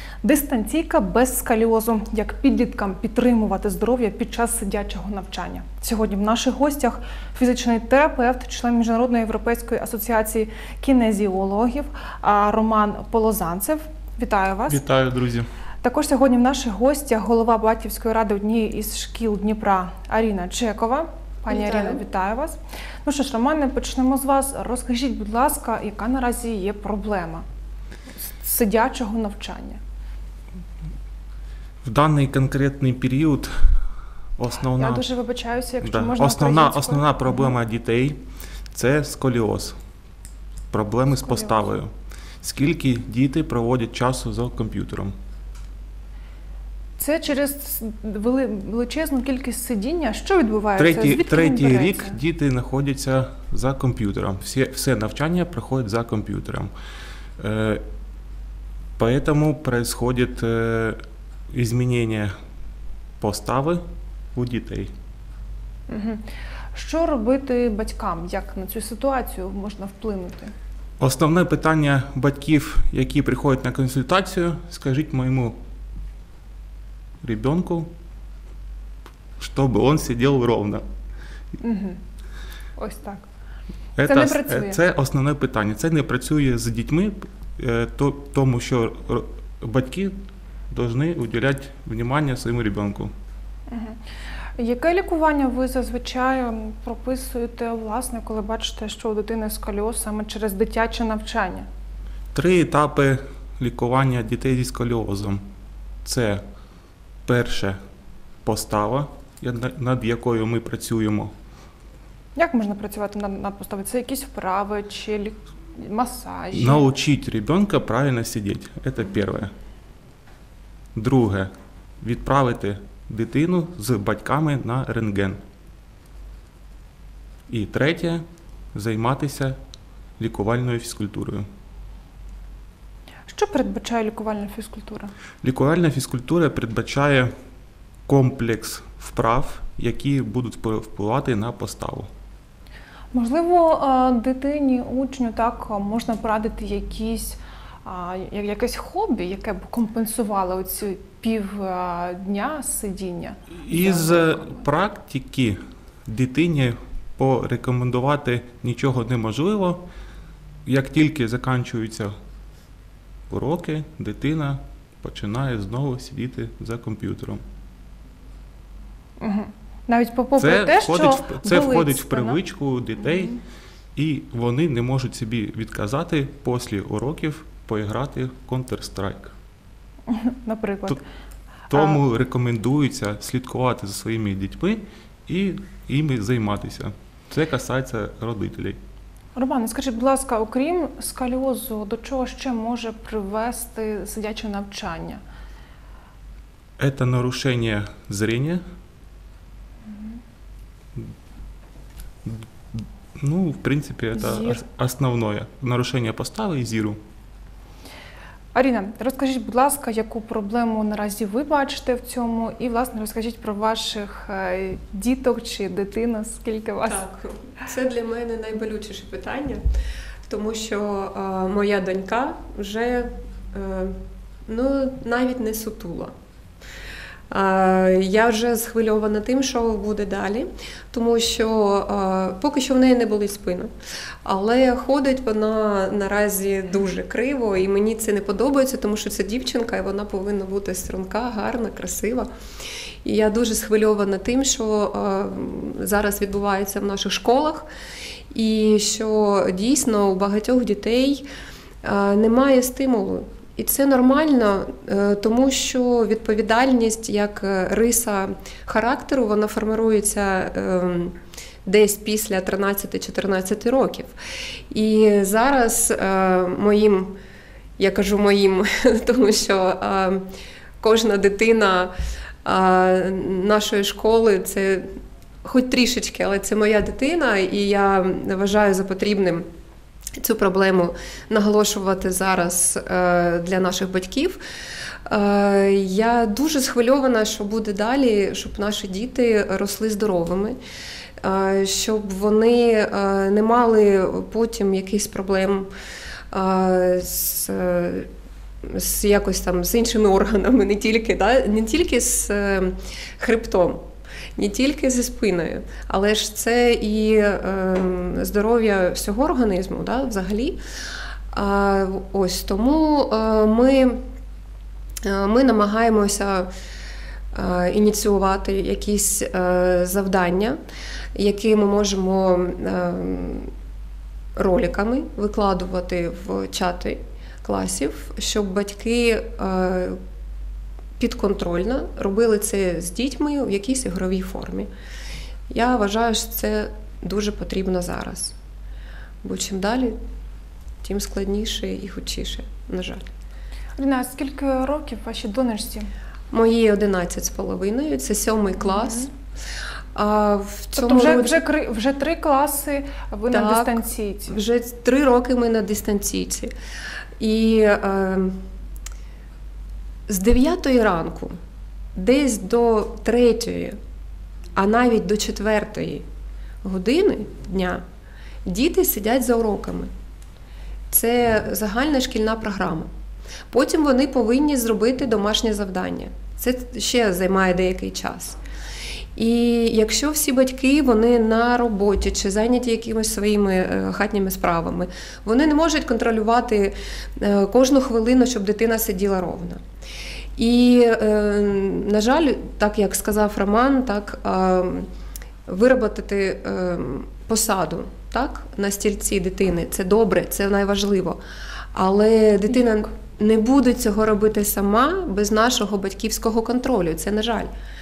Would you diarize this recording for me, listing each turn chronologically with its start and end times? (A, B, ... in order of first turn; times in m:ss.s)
0:00.2-0:14.8 A
0:14.7-0:15.5 B
0:15.8-0:27.4 A
0:21.5-0:22.0 C
0:28.2-0:29.8 A
0:31.8-0:33.8 B
0:34.4-0:35.0 B
0:34.8-0:37.5 A
0:35.8-0:38.2 B
0:38.7-0:39.8 B
0:40.7-0:41.9 B
0:41.2-0:41.6 A
0:42.4-0:45.1 B
0:47.0-0:52.2 A
0:50.8-0:56.7 B
0:57.4-0:57.8 B
0:59.0-1:01.0 B
1:01.5-1:02.3 B
1:03.2-1:03.8 B
1:04.3-1:04.9 B
1:05.9-1:06.2 A
1:06.7-1:10.5 A
1:11.0-1:15.6 B
1:17.2-1:17.9 B
1:19.4-1:20.8 B
1:21.6-1:22.0 A
1:22.8-1:23.2 A
1:24.0-1:30.1 B
1:24.0-1:24.8 A
1:30.7-1:33.1 B
1:33.7-1:34.0 A
1:34.6-1:41.7 A
1:42.3-1:45.4 B
1:46.0-1:46.4 B
1:47.2-1:47.8 B
1:48.4-1:51.3 B
1:52.4-1:56.9 A
1:56.5-1:59.5 B
2:00.9-2:01.5 B
2:02.0-2:05.4 B
2:07.5-2:09.6 B
2:10.2-2:11.5 B
2:13.3-2:15.1 A
2:15.4-2:17.3 B
2:18.1-2:22.1 B
2:23.1-2:34.6 A
2:33.6-2:39.8 B
2:40.6-2:42.1 B
2:43.3-2:47.4 B
2:49.2-2:52.4 A
2:50.4-2:53.3 B
2:54.0-2:59.3 B
3:00.1-3:01.0 A
3:01.7-3:08.8 B
3:09.3-3:15.2 A
3:16.8-3:18.6 B
3:22.2-3:27.0 B
3:24.2-3:24.6 A
3:28.5-3:37.0 A
3:36.8-3:39.6 C
3:40.3-3:43.9 C
3:44.5-3:46.1 C
3:47.3-3:53.7 C
3:54.2-4:02.3 C
4:03.0-4:07.6 C
4:08.3-4:11.2 C
4:11.8-4:21.1 C
4:21.6-4:24.1 C
4:24.7-4:27.1 C
4:27.8-4:30.2 C
4:30.8-4:31.9 C
4:32.4-4:34.8 C
4:35.4-4:39.4 C
4:40.2-4:44.4 C
4:45.1-4:50.6 C
4:51.2-4:55.7 C
4:56.3-4:58.1 C
4:58.6-5:03.8 C
5:04.4-5:10.6 C
5:11.3-5:14.0 C
5:15.0-5:16.5 C
5:17.3-5:20.6 C
5:21.1-5:23.5 C
5:24.4-5:30.0 C
5:31.0-5:34.7 C
5:35.5-5:38.3 C
5:39.2-5:40.0 C
5:40.8-5:43.0 C
5:43.8-5:45.9 A
5:46.3-5:49.1 C
5:48.8-5:49.1 A
5:49.9-5:51.4 C
5:50.7-5:54.3 A
5:53.3-5:56.5 C
5:57.2-5:58.4 C
6:00.1-6:01.3 C
6:02.0-6:03.8 C
6:04.6-6:06.0 C
6:06.6-6:07.8 C
6:08.4-6:09.9 C
6:10.9-6:12.9 C
6:13.5-6:18.4 C
6:19.2-6:29.6 C
6:30.4-6:34.8 C
6:35.5-6:41.2 C
6:41.7-6:47.5 C